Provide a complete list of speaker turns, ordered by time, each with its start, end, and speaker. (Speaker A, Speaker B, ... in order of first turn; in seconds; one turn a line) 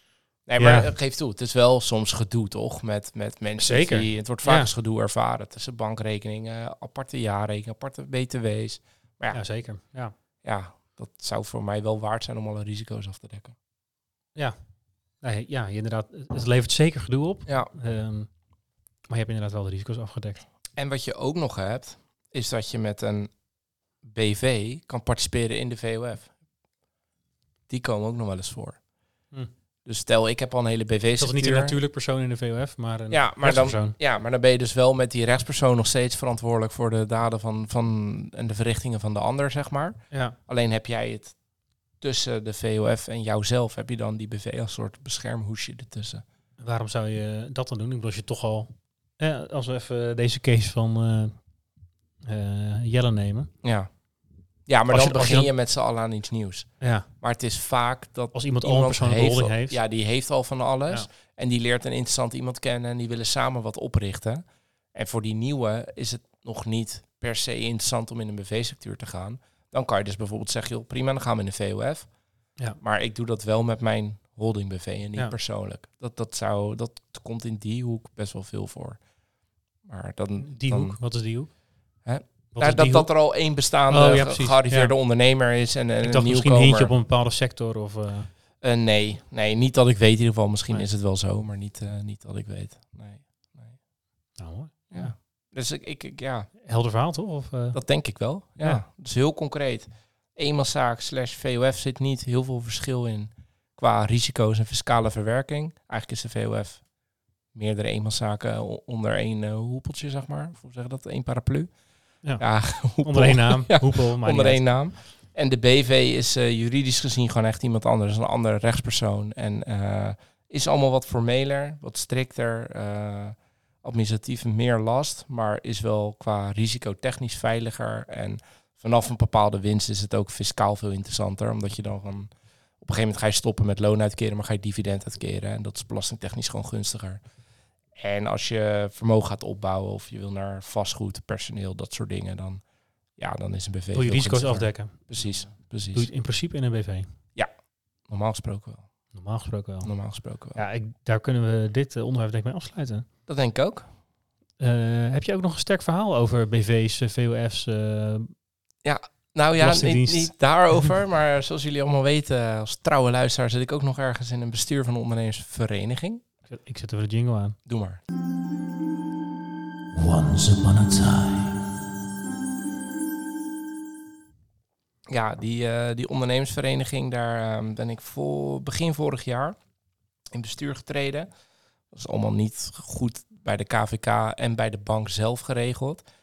Speaker A: 0.5-9.4
Speaker B: 0.6-0.9
Speaker B: 3.6-4.7
Speaker B: 9.3-10.1
Speaker A: 10.4-13.6
Speaker B: 15.2-18.3
Speaker B: 19.1-20.4
Speaker A: 20.8-23.3
Speaker A: 24.0-26.3
Speaker A: 27.7-28.8
Speaker A: 29.9-31.8
Speaker B: 31.2-34.0
Speaker A: 33.1-41.3
Speaker B: 40.1-40.4
Speaker A: 42.0-46.2
Speaker B: 46.6-51.4
Speaker B: 52.2-53.5
Speaker A: 53.6-53.9
Speaker A: 54.7-64.4
Speaker B: 54.9-55.5
Speaker B: 56.8-57.1
Speaker B: 58.3-59.8
Speaker A: 65.0-72.1
Speaker A: 72.8-79.0
Speaker A: 79.9-81.0
Speaker B: 80.5-81.5
Speaker A: 82.1-86.9
Speaker B: 82.5-83.1
Speaker B: 83.9-84.9
Speaker B: 86.0-88.3
Speaker A: 88.6-93.8
Speaker B: 94.4-95.1
Speaker A: 94.9-96.5
Speaker B: 96.6-97.8
Speaker A: 97.7-106.8
Speaker A: 107.5-111.7
Speaker A: 112.4-137.2
Speaker B: 113.0-114.6
Speaker A: 138.0-142.6
Speaker A: 143.2-146.1
Speaker B: 143.9-145.1
Speaker B: 145.9-147.1
Speaker A: 148.1-148.9
Speaker B: 149.1-149.9
Speaker A: 149.8-150.6
Speaker B: 150.6-153.1
Speaker A: 153.3-153.8
Speaker B: 154.6-158.3
Speaker A: 158.8-166.2
Speaker B: 159.6-160.3
Speaker B: 166.5-167.6
Speaker A: 167.7-168.0
Speaker B: 169.9-171.8
Speaker A: 175.1-179.6
Speaker A: 180.3-181.3
Speaker A: 181.9-186.0